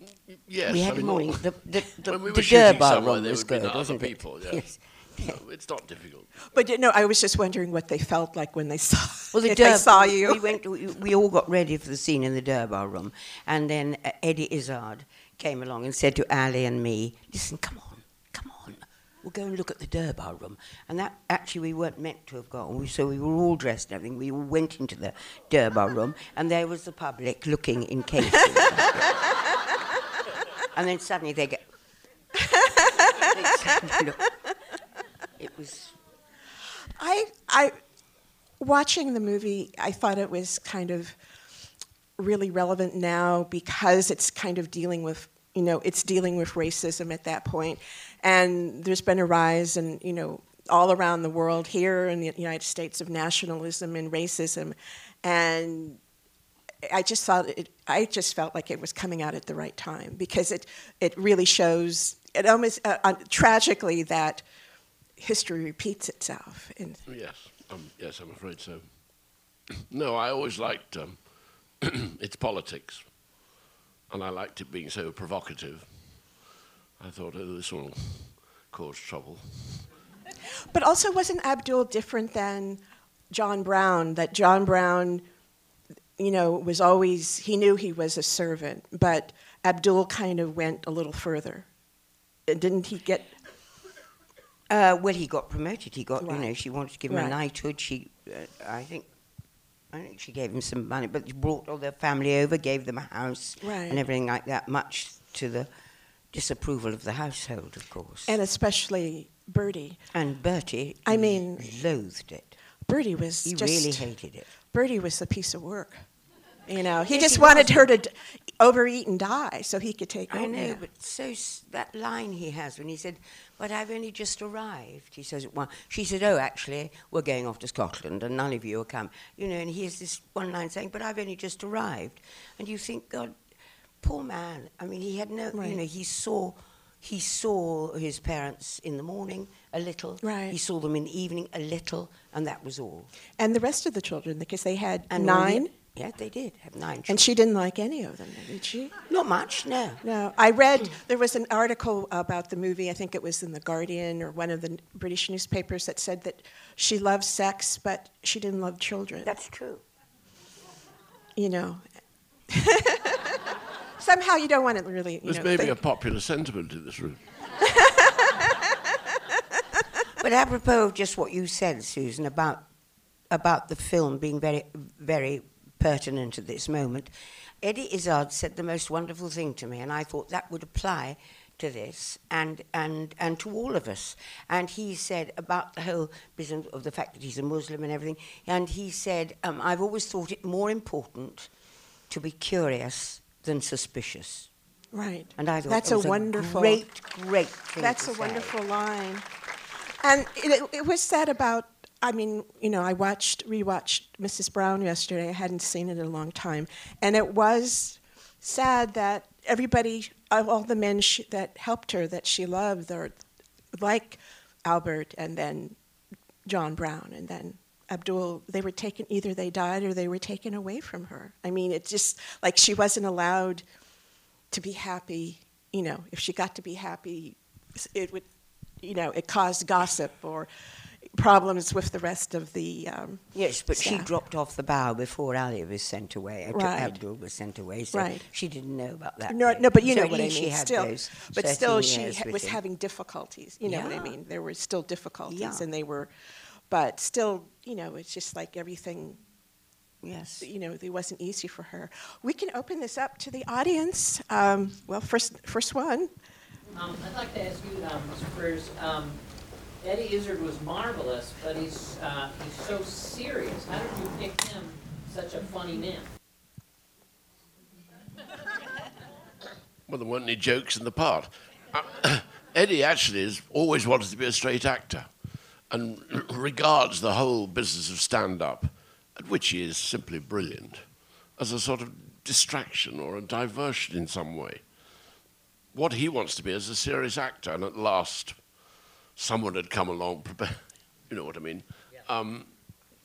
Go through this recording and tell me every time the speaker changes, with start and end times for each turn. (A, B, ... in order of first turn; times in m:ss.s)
0:00.3-0:06.3 A
0:00.7-0:05.4 B
0:06.5-0:10.5 C
0:09.3-0:29.0 B
0:30.7-0:31.6 B
0:32.4-0:33.0 C
0:33.1-0:34.2 B
0:35.4-0:35.9 B
0:36.9-0:37.7 C
0:38.6-0:41.2 C
0:42.2-0:56.0 C
0:56.8-1:04.4 C
1:05.2-1:07.0 C
1:07.1-1:09.0 A
1:09.9-1:11.2 A
1:11.8-1:13.0 A
1:14.1-1:16.3 A
1:17.0-1:19.9 A
1:20.7-1:25.2 C
1:26.2-1:31.7 C
1:32.5-1:33.3 C
1:34.7-1:39.1 B
1:36.2-1:36.5 C
1:37.1-1:37.4 C
1:39.9-1:45.7 B
1:43.6-1:44.0 C
1:46.3-1:48.4 B
1:48.3-1:50.0 C
1:50.1-1:52.5 B
1:51.0-1:51.7 C
1:52.8-1:54.1 C
1:53.4-1:54.5 B
1:54.7-1:56.0 C
1:56.7-2:00.8 C
1:57.1-1:57.9 B
2:00.3-2:13.4 B
2:14.0-2:23.1 B
2:20.2-2:20.5 C
2:23.4-2:25.7 C
2:25.1-2:27.2 B
2:27.1-2:28.9 C
2:29.1-2:30.0 B
2:30.0-2:39.3 C
2:39.2-2:39.8 B
2:41.4-2:41.8 C
2:42.5-2:43.3 C
2:44.0-2:45.8 C
2:45.2-2:47.2 A
2:47.6-2:48.3 C
2:50.2-2:52.6 B
2:53.3-2:57.1 B
2:57.6-3:11.5 B
3:12.1-3:14.5 B
3:14.9-3:16.8 C
3:15.4-3:18.5 B
3:17.8-3:19.2 C
3:20.0-3:33.2 C
3:33.7-3:35.8 C
3:36.4-3:43.6 C
3:44.5-3:48.3 C
3:48.8-3:50.5 C
3:51.0-3:54.1 C
3:53.3-4:02.6 B
3:56.5-3:57.0 C
3:57.9-3:58.2 C
3:59.3-4:06.1 C
4:03.6-4:04.1 B
4:05.3-4:05.6 B
4:06.7-4:09.2 C
4:10.0-4:10.5 B
4:10.4-4:16.1 C
4:16.7-4:19.2 D
4:19.8-4:26.1 D
4:29.9-4:35.1 A
4:35.7-4:44.6 A
4:45.7-4:48.4 A
4:49.2-4:52.5 A